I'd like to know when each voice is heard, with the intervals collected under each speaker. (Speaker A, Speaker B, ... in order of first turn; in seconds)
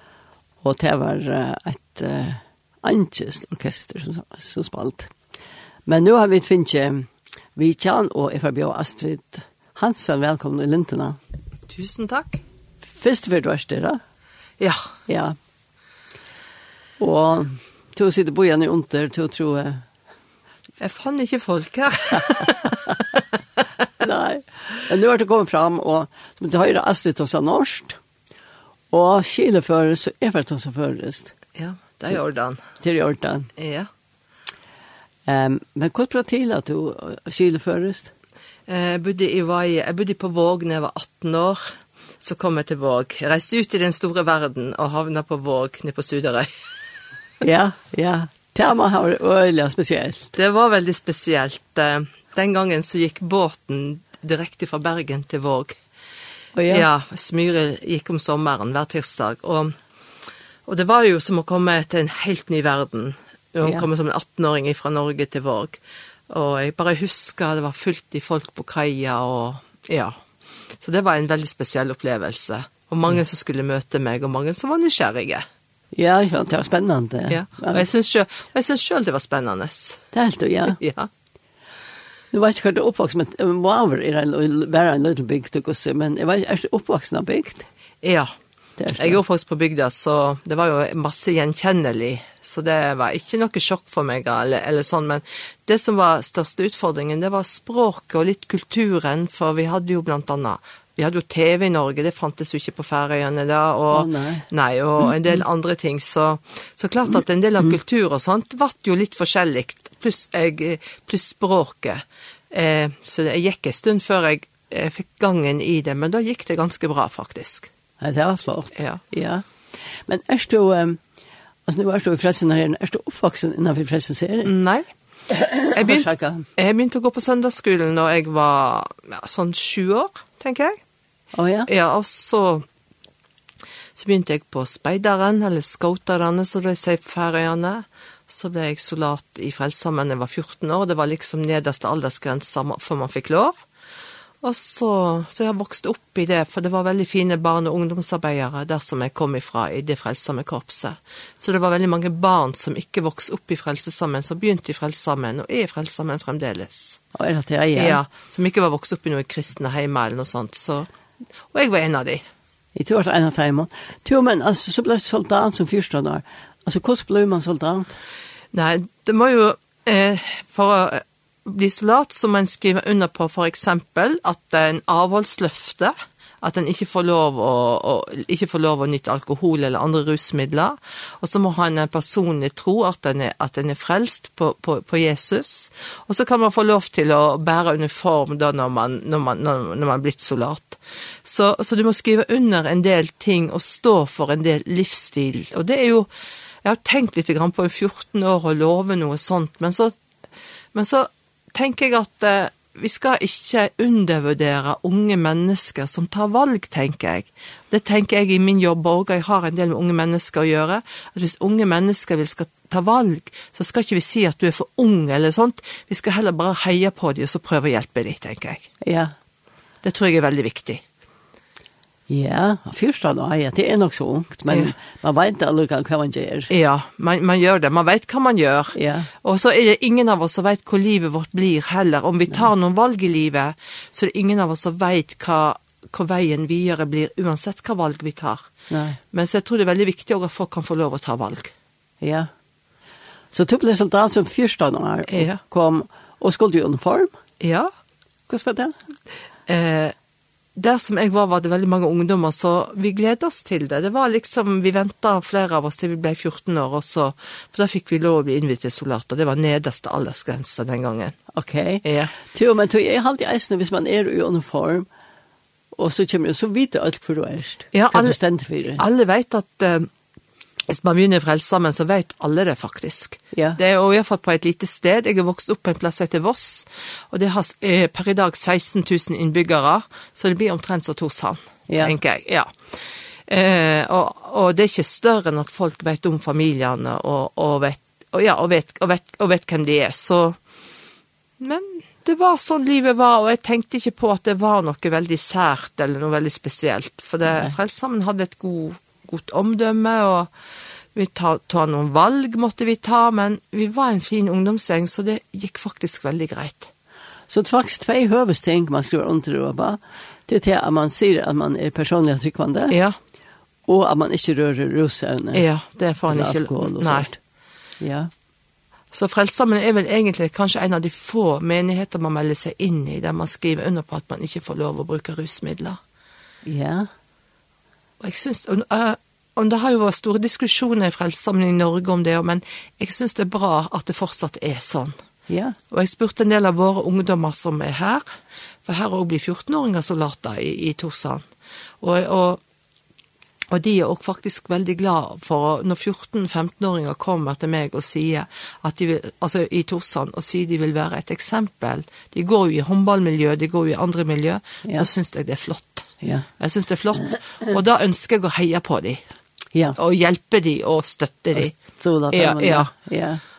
Speaker A: 0.6-5.1, 5.9-11.2, 12.9-14.0, 15.1-15.4, 17.0-19.9, 24.0-28.0, 28.9-31.3, 32.8-33.5, 35.2-38.1, 47.4-50.3, 56.5-56.9, 75.9-77.8, 80.1-80.8, 82.3-87.7, 88.8-89.2, 103.9-104.5, 118.0-121.0, 121.7-124.5, 125.3-126.5, 131.3-131.7, 157.2-158.0, 162.8-167.9, 218.8-219.1, 222.1-226.5, 228.8-229.1, 238.7-239.0, 242.0-242.3, 243.3-247.1, 248.3-248.8, 261.3-264.9, 265.8-268.8, 273.3-273.6, 281.7-282.0, 297.3-297.5, 307.3-312.8, 313.7-315.4, 316.1-317.2, 317.8-318.1, 326.4-326.9, 335.3-335.6, 356.0-356.3, 361.4-363.2
Speaker B: 11.7-12.4, 14.6-14.9, 20.8-23.2, 31.6-32.6, 33.6-33.9, 38.7-46.5, 50.3-55.8, 56.7-59.8, 60.7-65.8, 66.3-70.2, 70.8-75.5, 77.3-80.0, 80.7-81.1, 88.0-88.3, 89.0-117.7, 118.8-119.0, 124.4-124.9, 125.7-130.8, 131.7-132.7, 133.9-143.6, 144.4-157.0, 157.8-160.9, 161.5-162.2, 168.5-196.1, 196.6-200.0, 200.7-218.7, 219.8-220.8, 226.5-238.5, 239.1-241.5, 245.1-245.4, 247.4-247.7, 249.5-249.9, 250.6-261.1, 261.8-262.1, 267.7-268.2, 268.8-269.9, 270.7-290.4, 291.4-300.3, 300.9-306.7, 312.7-313.0, 315.3-317.1, 318.9-325.8, 328.0-335.0, 335.7-338.1, 338.6-341.3, 341.8-342.4, 343.5-359.0, 359.8-361.6, 362.1-362.7